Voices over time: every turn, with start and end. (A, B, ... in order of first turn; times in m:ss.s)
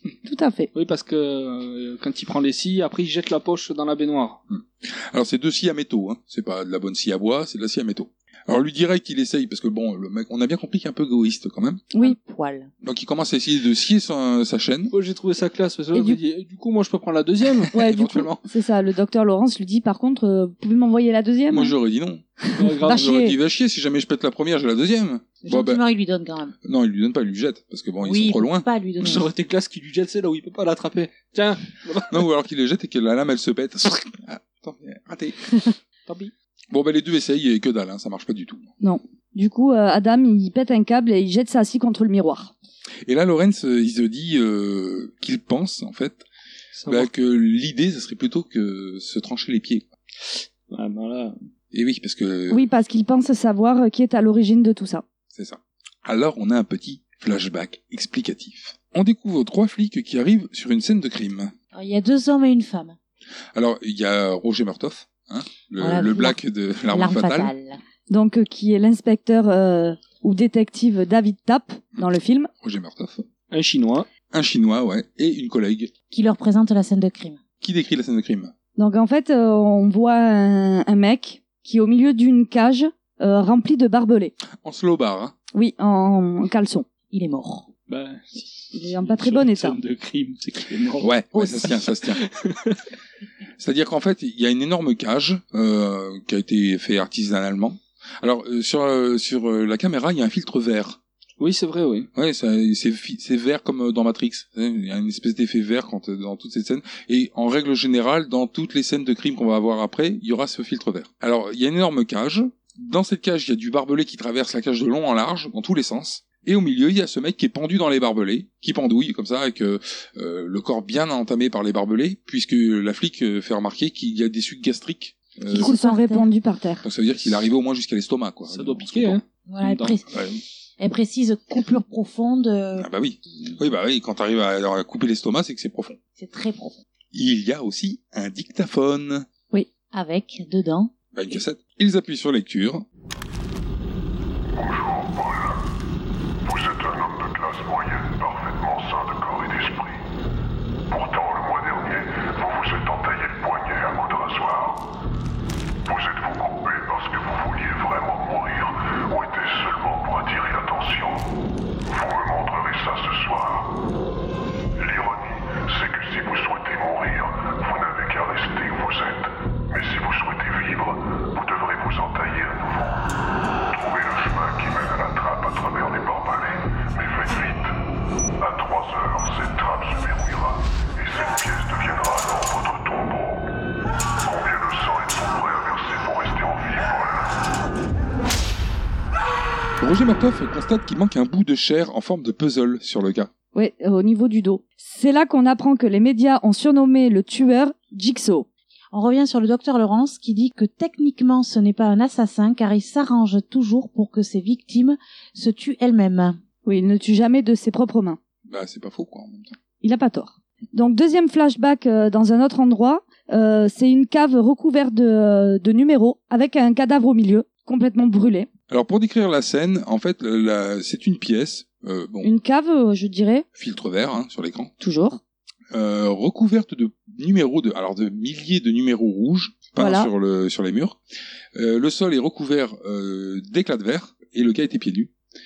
0:00.2-0:00.7 A
0:00.7-0:04.4 B
0:04.5-0:11.8 C
0:12.0-0:12.7 D
0:12.8-0:14.9 C
0:14.9-0:17.7 B
0:15.9-0:16.2 A
0:17.7-0:18.4 C
0:17.7-0:21.7 A
0:21.5-0:22.3 C
0:22.4-0:23.4 A
0:22.6-0:23.0 B
0:22.8-0:25.8 C
0:25.4-0:26.5 D
0:26.6-0:28.7 C
0:28.0-0:29.3 D
0:29.0-0:32.3 B
0:32.1-0:35.4 C
0:36.1-0:36.3 B
0:36.7-0:38.7 C
0:38.8-0:42.5 A
0:43.0-0:46.2 C
0:46.8-0:47.1 B
0:46.9-0:49.9 C
0:50.3-0:51.4 B
0:51.7-0:52.7 C
0:52.5-0:55.0 A
0:55.3-1:01.5 C
1:01.7-1:03.0 D
1:03.5-1:07.5 C
1:05.8-1:07.8 D
1:08.1-1:12.5 A
1:12.6-1:13.3 C
1:13.5-1:14.1 B
1:14.3-1:15.9 C
1:16.1-1:17.4 D
1:17.6-1:18.5 C
1:18.8-1:24.3 A
1:24.6-1:25.3 C
1:25.5-1:26.9 A
1:27.1-1:27.7 D
1:27.9-1:31.1 B
1:28.7-1:29.8 A
1:31.0-1:32.2 C
1:31.3-1:31.7 D
1:31.7-1:32.8 B
1:33.6-1:41.0 C
1:41.4-1:42.1 B
1:42.1-2:05.7 C
2:05.5-2:06.3 D
2:05.5-2:06.8 A
2:06.8-2:09.2 C
2:08.5-2:10.0 B
2:09.5-2:10.1 D
2:10.1-2:10.4 C
2:10.8-2:12.9 D
2:12.8-2:16.0 C
2:16.2-2:16.8 D
2:17.1-2:19.3 C
2:19.9-2:20.9 D
2:21.1-2:22.8 C
2:24.5-2:25.6 E
2:26.4-2:30.0 E
2:30.9-2:34.9 E
2:35.8-2:41.3 E
2:41.9-2:43.7 E
2:44.8-2:53.1 E
2:53.7-2:57.8 E
2:58.4-3:03.5 E
3:04.2-3:07.4 E
3:09.8-3:13.3 C
3:13.5-3:18.5 A
3:18.9-3:26.4 D
3:26.6-3:28.2 A
3:28.4-3:29.6 C
3:29.8-3:38.5 A
3:38.7-3:42.3 C
3:42.2-3:43.4 A
3:43.5-3:44.7 C
3:44.8-3:45.2 A
3:45.7-3:51.0 C
3:49.8-3:50.1 A
3:51.5-3:55.1 C